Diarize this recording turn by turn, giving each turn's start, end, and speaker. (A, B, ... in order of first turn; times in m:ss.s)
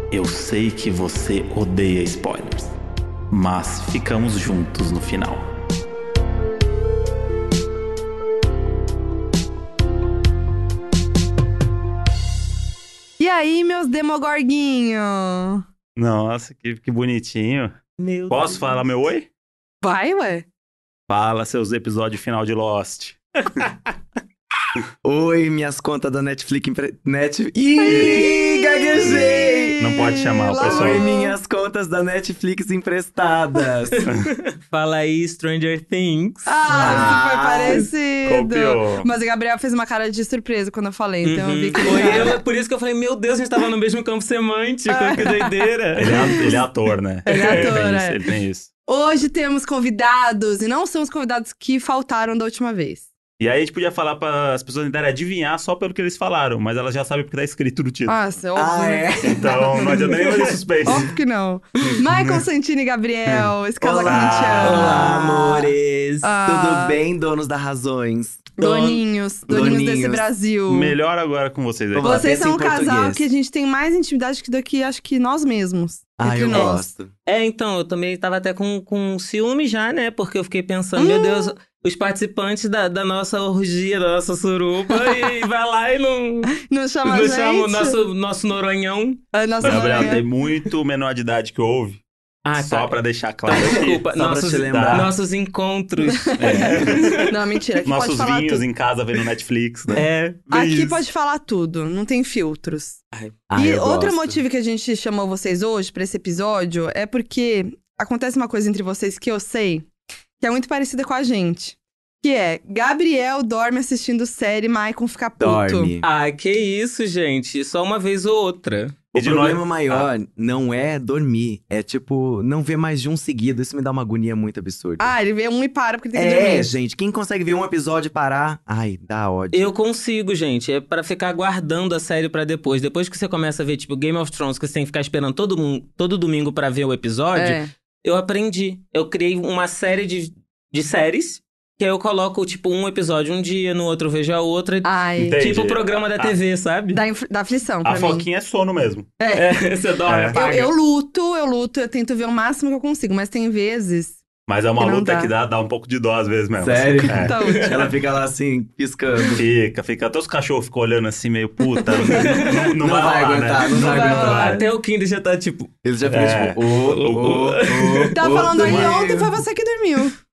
0:00.1-0:02.7 A
0:03.3-0:05.5 A
0:13.2-0:15.6 B
0:16.0-0:19.3 A
0:18.0-0:18.8 C
0:19.8-0:20.5 B
0:21.1-0:23.7 A
0:25.0-0:30.0 D
0:27.8-0:31.4 B
0:27.9-0:28.3 A
0:29.0-0:31.1 A
0:30.6-0:34.1 D
0:34.0-0:37.8 C
0:36.5-0:42.4 B
0:36.7-0:37.9 D
0:38.3-0:39.1 A
0:41.2-0:46.6 C
0:41.9-0:42.3 D
0:44.9-0:45.5 B
0:46.0-0:48.7 A
0:46.2-0:46.6 B
0:47.3-0:48.2 B
0:47.3-0:47.8 C
0:48.9-0:53.1 B
0:53.4-0:58.2 A
0:58.1-1:00.2 B
0:58.6-1:00.5 D
0:59.2-1:01.1 A
1:00.8-1:05.1 B
1:01.8-1:02.4 A
1:03.8-1:08.6 D
1:04.0-1:05.0 A
1:04.6-1:05.8 C
1:06.2-1:07.0 B
1:08.6-1:11.0 B
1:08.6-1:09.0 C
1:09.5-1:10.2 D
1:10.7-1:12.2 A
1:11.9-1:13.2 D
1:12.0-1:16.9 B
1:16.2-1:17.1 D
1:17.3-1:29.2 C
1:21.0-1:21.5 B
1:26.6-1:28.0 B
1:29.3-1:30.3 B
1:29.6-1:32.0 A
1:32.4-1:37.4 C
1:32.6-1:35.1 A
1:33.9-1:35.1 D
1:36.1-1:38.6 B
1:36.4-1:37.3 A
1:37.8-1:41.0 A
1:39.9-1:40.4 C
1:40.5-1:43.0 B
1:43.5-1:44.4 D
1:43.6-1:49.9 B
1:50.4-1:55.9 B
1:55.4-1:56.1 D
1:56.0-1:59.0 C
1:59.1-2:00.1 A
1:59.2-2:05.1 D
2:05.0-2:06.7 B
2:06.1-2:09.7 D
2:09.5-2:27.0 C
2:17.4-2:17.7 B
2:24.8-2:25.5 B
2:25.2-2:26.3 A
2:26.9-2:28.3 B
2:27.8-2:29.1 A
2:29.2-2:29.7 B
2:29.3-2:30.7 C
2:30.1-2:30.4 A
2:30.3-2:34.2 B
2:34.5-2:37.4 A
2:34.8-2:35.3 B
2:36.6-2:39.4 D
2:37.1-2:37.9 B
2:39.4-2:44.2 A
2:42.1-2:42.7 C
2:42.8-2:44.6 D
2:43.7-2:44.6 B
2:43.8-2:45.7 C
2:45.8-2:49.4 D
2:46.1-2:47.5 A
2:46.9-2:48.1 C
2:48.1-2:50.2 B
2:48.6-2:48.9 A